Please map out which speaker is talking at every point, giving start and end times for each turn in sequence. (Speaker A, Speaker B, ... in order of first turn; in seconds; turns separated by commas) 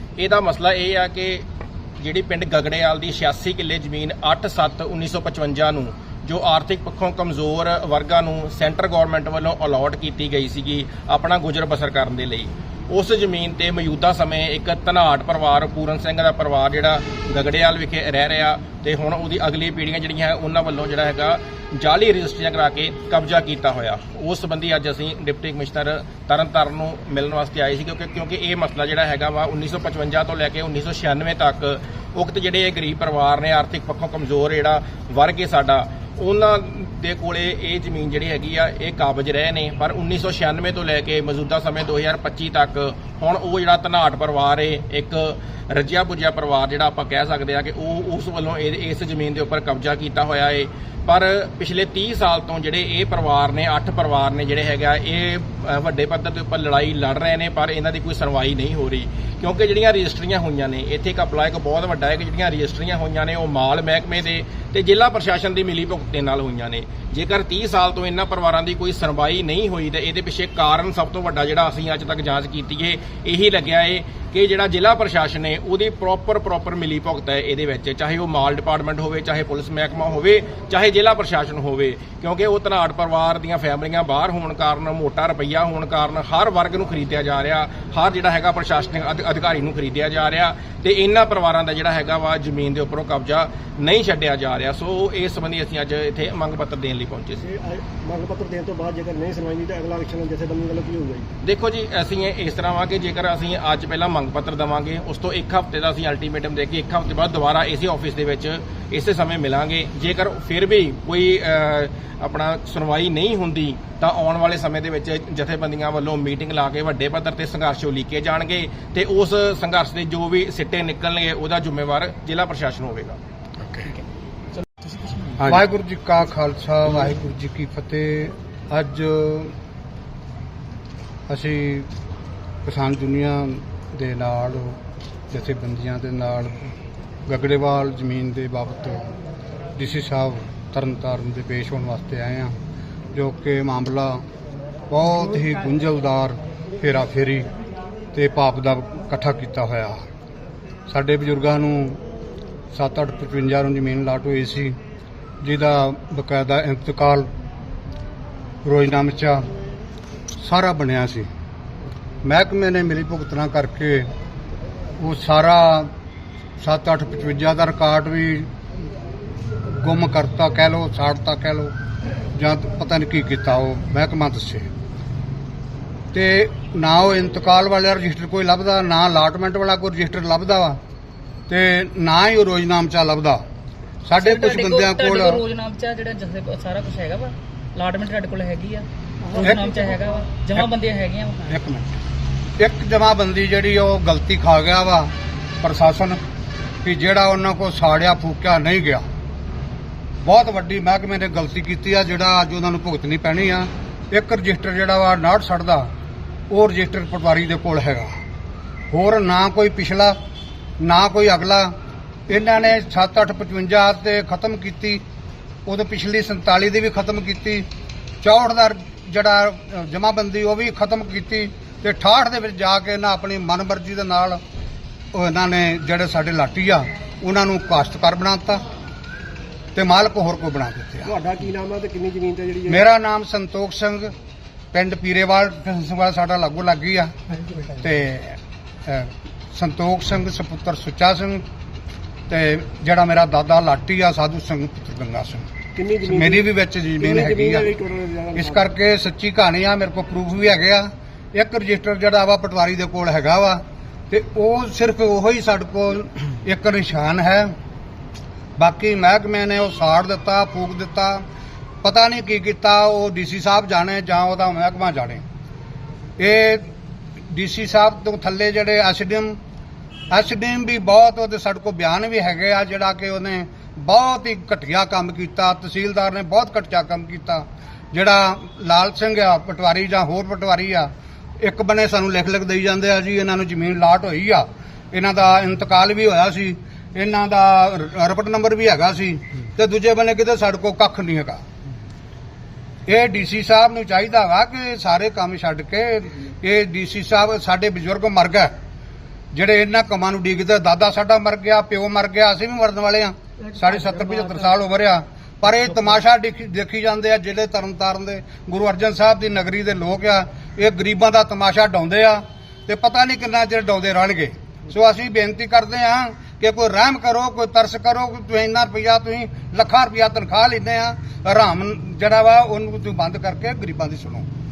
Speaker A: 0.2-1.4, Speaker A: 2.0-97.5, Speaker B: 97.4-101.3, Speaker A: 101.4-123.2, Speaker C: 125.4-129.5, Speaker C: 131.3-131.9, Speaker C: 132.7-134.8, Speaker C: 135.3-136.7, Speaker C: 137.3-139.1, Speaker C: 139.8-142.6, Speaker C: 143.1-144.2, Speaker C: 144.9-147.5, Speaker C: 148.1-150.0, Speaker C: 150.9-152.0, Speaker C: 152.7-154.8, Speaker C: 155.4-157.3, Speaker C: 158.7-159.5, Speaker C: 160.4-161.3, Speaker C: 162.2-164.1, Speaker C: 165.0-165.9, Speaker C: 166.6-168.5, Speaker C: 169.8-171.7, Speaker C: 172.3-174.7, Speaker C: 176.1-180.8, Speaker C: 181.5-183.4, Speaker C: 184.1-185.4, Speaker D: 184.2-191.5, Speaker C: 189.4-189.7, Speaker C: 191.5-191.9, Speaker C: 192.6-196.2, Speaker C: 196.8-199.0, Speaker C: 200.2-205.9, Speaker C: 206.5-208.1, Speaker C: 208.9-210.2, Speaker C: 210.8-211.7, Speaker C: 212.3-215.0, Speaker C: 215.7-217.7, Speaker C: 218.2-224.4, Speaker C: 225.1-228.6, Speaker C: 229.8-231.1, Speaker B: 231.1-232.8, Speaker C: 232.7-234.1, Speaker C: 234.7-237.1, Speaker C: 237.7-241.4, Speaker C: 242.3-245.5, Speaker B: 245.8-246.5, Speaker C: 246.1-247.7, Speaker B: 247.0-248.7, Speaker C: 248.4-257.5, Speaker C: 258.6-261.2, Speaker C: 261.8-265.2, Speaker C: 266.2-266.7, Speaker C: 267.3-269.4, Speaker C: 270.1-291.4, Speaker C: 292.9-298.5, Speaker C: 299.3-324.3